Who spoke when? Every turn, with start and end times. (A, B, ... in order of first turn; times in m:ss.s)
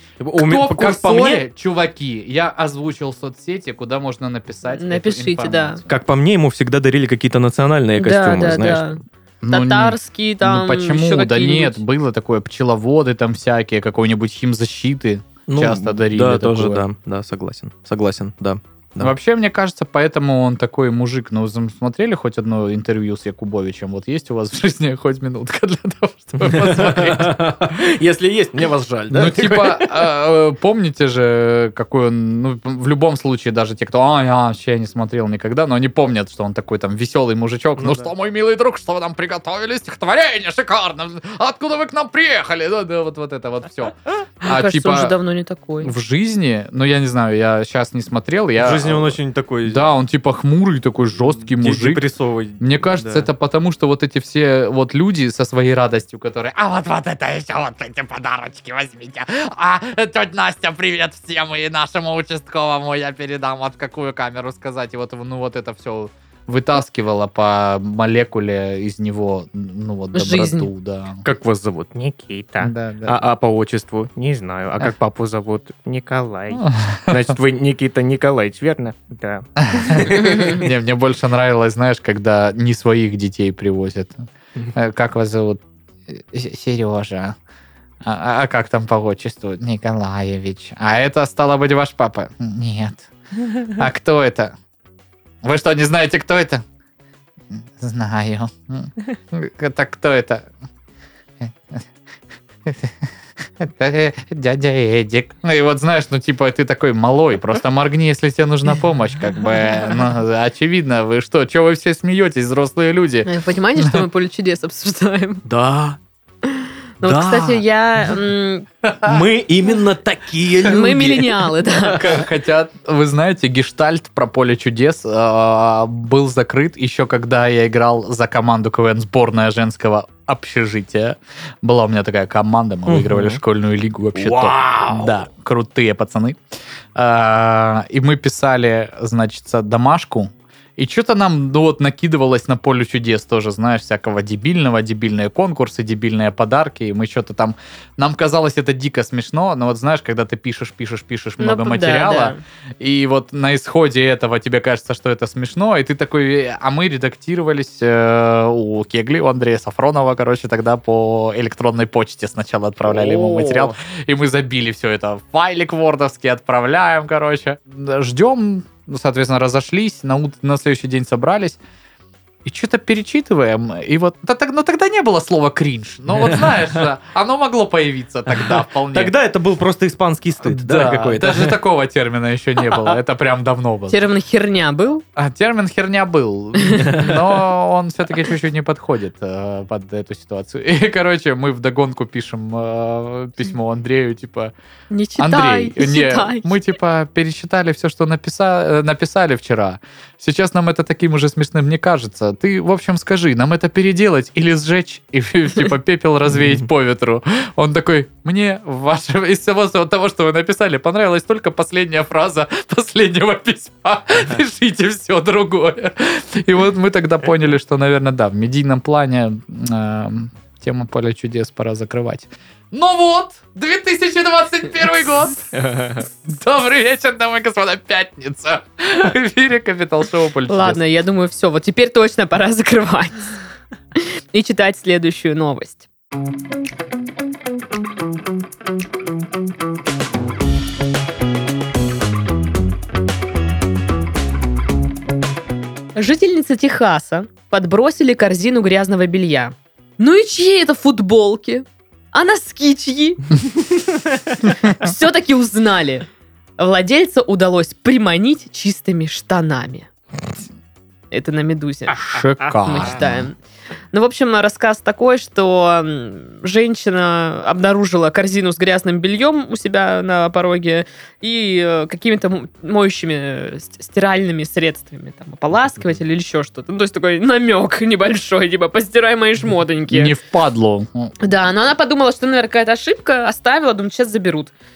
0:00.2-0:01.4 A
0:00.4-0:05.9 B
0:04.7-0:05.8 C
0:05.9-0:08.8 A
0:08.0-0:11.8 C
0:09.4-0:16.8 B
0:15.5-0:19.1 A
0:19.0-0:27.4 B
0:26.4-0:29.9 A
0:29.1-0:45.1 B
0:37.8-0:38.1 A
0:44.4-0:45.9 C
0:45.8-0:52.0 B
0:48.6-0:49.9 A
0:51.6-0:53.3 A
0:52.6-1:11.2 B
1:10.1-1:10.7 C
1:11.2-1:20.1 D
1:12.6-1:13.2 B
1:16.5-1:17.3 B
1:19.6-1:24.2 B
1:20.1-1:20.6 A
1:24.7-1:27.4 B
1:28.0-1:33.1 B
1:33.6-1:34.5 B
1:35.4-1:36.6 B
1:37.5-1:40.5 B
1:41.4-1:41.8 B
1:42.6-1:43.1 B
1:43.6-1:54.0 B
1:53.2-1:55.4 C
1:55.4-1:56.0 A
1:56.4-1:58.6 C
1:57.0-1:57.6 A
1:58.8-1:59.2 B
1:59.0-2:02.2 A
2:00.6-2:02.0 C
2:02.0-2:16.4 B
2:12.9-2:13.4 A
2:14.1-2:15.2 A
2:16.9-2:51.6 B
2:31.4-2:32.4 C
2:42.9-2:43.8 A
2:52.4-2:59.1 B
2:56.1-2:56.5 A
2:58.4-3:01.6 A
3:00.4-3:04.0 B
3:03.9-3:05.0 C
3:05.2-3:14.5 B
3:06.7-3:07.0 C
3:14.9-3:16.5 C
3:15.2-3:45.5 B
3:45.5-3:46.0 A
3:46.0-3:50.8 B
3:50.5-3:53.3 C
3:54.0-3:55.9 C
4:05.9-4:13.7 C
4:14.4-4:16.0 C
4:16.6-4:19.9 C
4:21.1-4:23.4 C
4:21.9-4:23.3 B
4:23.9-4:40.1 C
4:39.9-4:41.1 B
4:41.2-4:44.5 C